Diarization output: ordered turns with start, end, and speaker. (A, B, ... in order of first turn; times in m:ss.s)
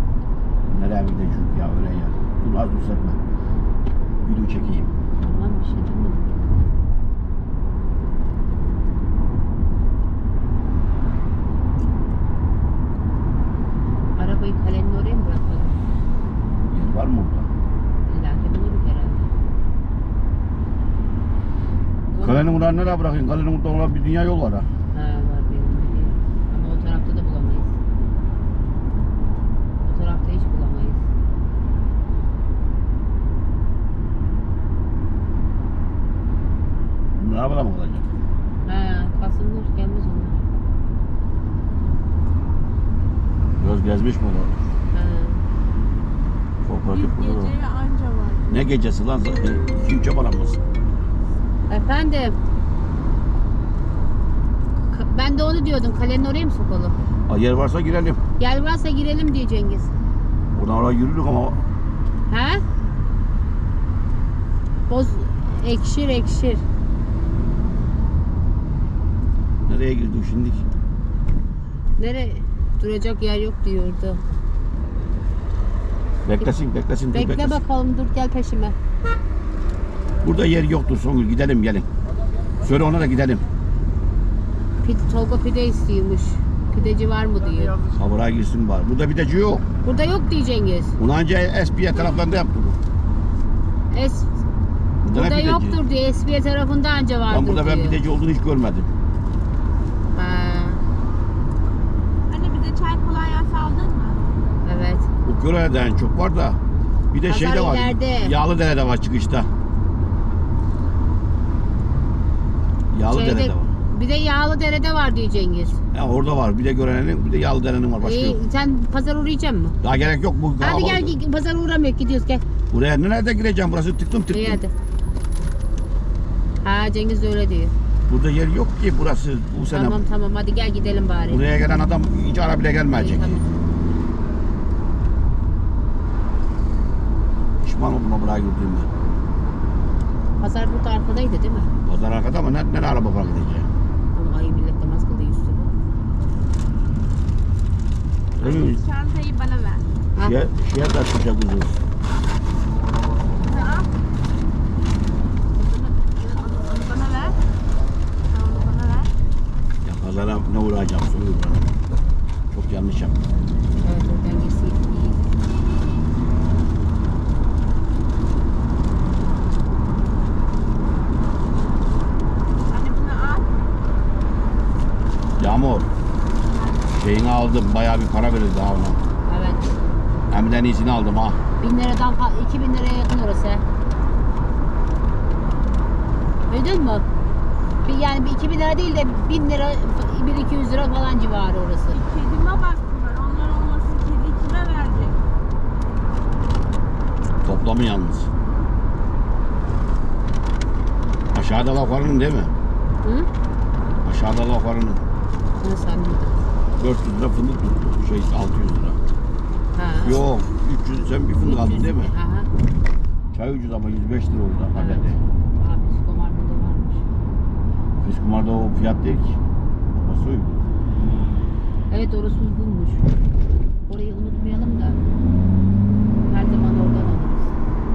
0:00.7-0:03.2 A
0:04.2-0:04.9 A
0:05.2-0:06.4 B
0:14.2-0:15.8 B
0:16.7-0:17.5 A
0:18.0-0:19.4 B
0:22.1-0:22.9 B
0:22.2-0:24.7 A
0:24.9-0:27.7 B
0:29.8-0:31.0 B
0:37.2-0:38.0 A
0:38.6-0:40.4 B
0:43.6-0:44.6 A
0:44.9-0:45.4 B
0:46.6-0:47.5 A
0:46.9-0:48.6 C
0:48.5-0:50.6 A
0:51.7-0:52.4 B
0:54.9-0:57.0 B
0:57.3-0:58.2 A
0:58.4-0:59.9 B
1:00.5-1:01.6 A
1:02.3-1:02.6 B
1:04.9-1:06.6 B
1:09.7-1:10.6 A
1:12.0-1:14.2 B
1:16.2-1:17.6 A
1:17.1-1:18.8 B
1:20.2-1:21.9 A
1:22.6-1:23.4 A
1:24.8-1:27.8 B
1:28.0-1:29.6 A
1:29.8-1:31.0 B
1:31.0-1:32.8 A
1:33.9-1:34.4 B
1:35.0-1:35.8 A
1:35.1-1:38.0 B
1:37.3-1:38.9 A
1:40.1-1:40.8 B
1:42.3-1:44.2 C
1:44.6-1:45.1 B
1:45.2-1:46.6 A
1:47.1-1:49.5 A
1:47.2-1:48.3 B
1:52.9-1:53.7 A
1:53.1-1:55.8 B
1:55.9-1:58.4 A
1:58.0-1:59.8 B
1:59.8-2:01.1 A
2:00.6-2:02.4 B
2:02.7-2:04.6 A
2:04.3-2:04.7 B
2:06.6-2:07.7 B
2:08.1-2:10.0 A
2:09.7-2:11.4 B
2:11.3-2:13.5 A
2:12.9-2:13.5 B
2:17.6-2:18.9 A
2:20.4-2:21.7 B
2:21.9-2:23.7 A
2:24.2-2:25.7 B
2:28.4-2:28.8 A
2:28.4-2:29.9 C
2:30.2-2:31.8 A
2:33.4-2:33.9 C
2:35.6-2:37.4 C
2:38.3-2:39.1 C
2:39.8-2:41.7 A
2:42.5-2:43.2 A
2:43.8-2:45.2 B
2:52.7-2:53.6 C
2:55.4-2:55.9 A
2:56.4-2:56.9 C
2:56.9-2:59.0 A
2:59.3-2:59.8 B
3:00.3-3:01.4 A
3:01.6-3:03.6 B
3:06.5-3:07.1 B
3:07.8-3:12.0 B
3:11.9-3:15.2 C
3:17.4-3:18.3 A
3:21.3-3:22.5 A
3:23.0-3:23.3 B
3:24.0-3:25.0 A
3:25.6-3:26.4 B
3:26.8-3:29.0 A
3:29.7-3:30.2 B
3:30.0-3:32.2 A
3:31.4-3:32.5 B
3:33.3-3:35.2 A
3:34.8-3:37.1 B
3:38.0-3:39.4 A
3:39.9-3:40.6 A
3:41.9-3:43.1 B
3:43.9-3:45.0 B
3:46.3-3:47.5 B